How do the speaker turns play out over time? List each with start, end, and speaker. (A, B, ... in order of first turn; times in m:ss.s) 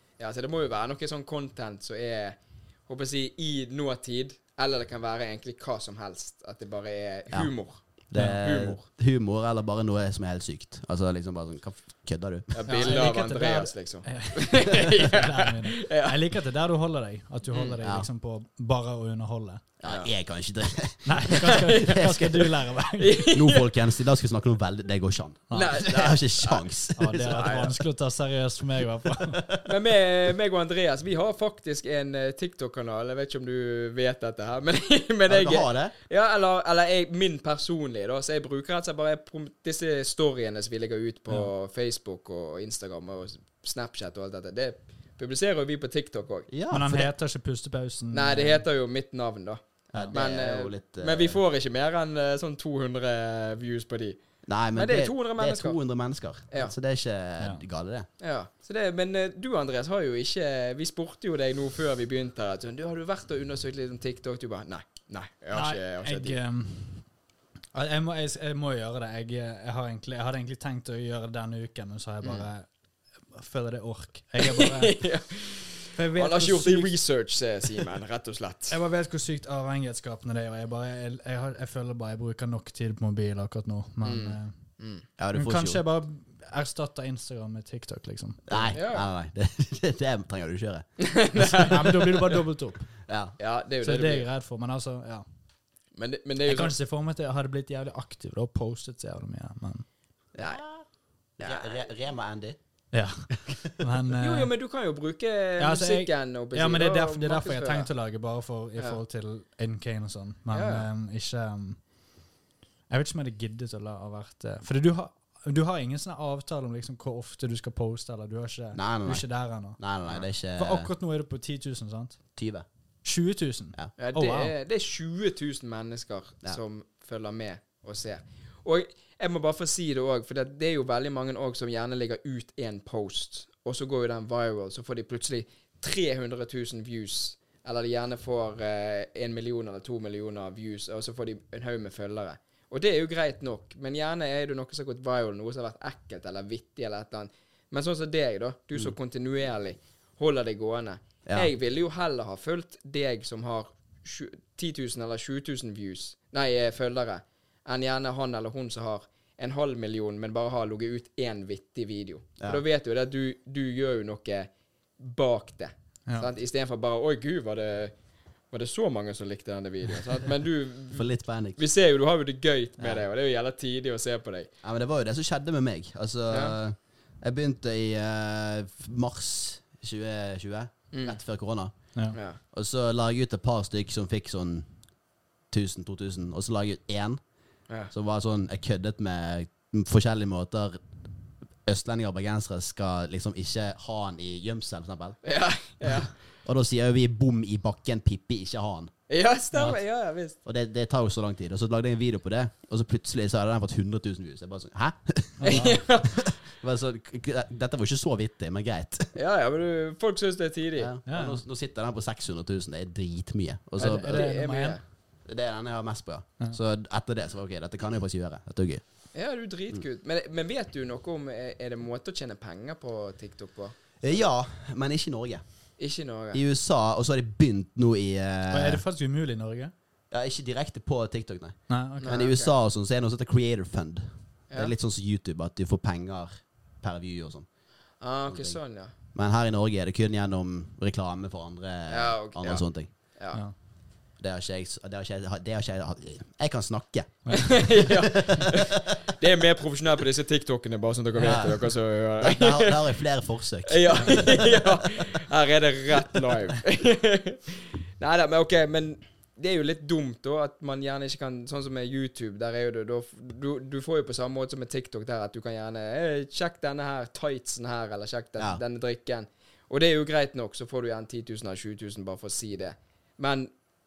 0:00.2-0:08.8 A
0:08.1-0:12.5 B
0:12.5-0:16.2 A
0:12.7-0:19.6 C
0:17.5-0:17.8 A
0:17.8-0:18.1 B
0:19.8-0:22.5 B
0:21.0-0:23.2 C
0:21.5-0:22.1 A
0:23.0-0:23.8 A
0:23.3-0:27.2 B
0:25.5-0:25.8 C
0:25.5-0:27.7 A
0:27.0-0:29.4 C
0:29.6-0:46.5 A
0:35.3-0:35.9 B
0:46.5-0:47.1 B
0:46.7-0:48.6 C
0:48.1-0:54.2 A
0:49.9-0:51.4 B
0:54.5-0:58.1 B
0:54.7-0:55.8 A
0:58.2-1:06.4 A
1:05.5-1:07.1 C
1:07.7-1:12.7 C
1:13.3-1:15.0 C
1:14.4-1:18.8 A
1:15.9-1:17.0 C
1:18.7-1:24.5 C
1:24.0-1:25.0 A
1:25.2-1:25.8 B
1:25.3-1:28.7 C
1:28.5-1:30.8 B
1:28.7-1:29.1 A
1:31.0-1:32.2 A
1:31.4-1:32.9 C
1:33.1-1:33.4 B
1:33.4-1:34.3 A
1:33.8-1:35.2 C
1:36.0-1:36.7 A
1:36.4-1:39.8 C
1:40.3-1:40.8 B
1:41.4-1:42.6 B
1:41.4-1:41.8 A
1:42.9-1:44.5 C
1:44.2-1:47.9 A
1:45.6-1:51.8 C
1:50.5-1:50.9 A
1:52.9-1:59.8 C
1:58.7-2:00.9 B
2:00.5-2:02.2 C
2:02.4-2:02.6 B
2:03.0-2:04.5 C
2:04.0-2:47.9 A
2:31.2-2:31.5 B
2:48.5-2:54.5 A
2:50.9-2:51.6 B
2:52.8-2:53.0 B
2:54.6-3:01.7 B
2:56.3-2:56.6 A
3:00.9-3:01.2 A
3:02.1-3:02.4 A
3:02.5-3:04.7 B
3:05.5-3:07.2 B
3:07.9-3:10.8 B
3:11.6-3:15.2 B
3:15.2-3:16.1 A
3:16.4-3:18.9 B
3:19.1-3:20.4 A
3:20.4-3:29.1 B
3:25.4-3:25.8 C
3:25.4-3:26.2 A
3:29.1-3:30.9 A
3:30.8-3:34.3 B
3:31.1-3:31.4 C
3:33.8-3:34.8 A
3:34.0-3:34.8 C
3:35.2-3:38.8 B
3:39.1-3:43.8 A
3:44.0-3:45.4 B
3:45.8-3:46.4 A
3:46.3-3:48.8 B
3:48.5-3:49.7 C
3:50.1-3:57.5 B
3:51.7-3:52.2 C
3:52.0-3:52.5 A
3:58.0-3:58.9 A
3:58.3-3:58.6 B
3:59.1-4:02.9 B
4:01.9-4:03.4 A
4:04.2-4:08.8 B
4:07.2-4:07.5 C
4:07.3-4:12.9 A
4:11.2-4:14.7 B
4:13.6-4:33.5 A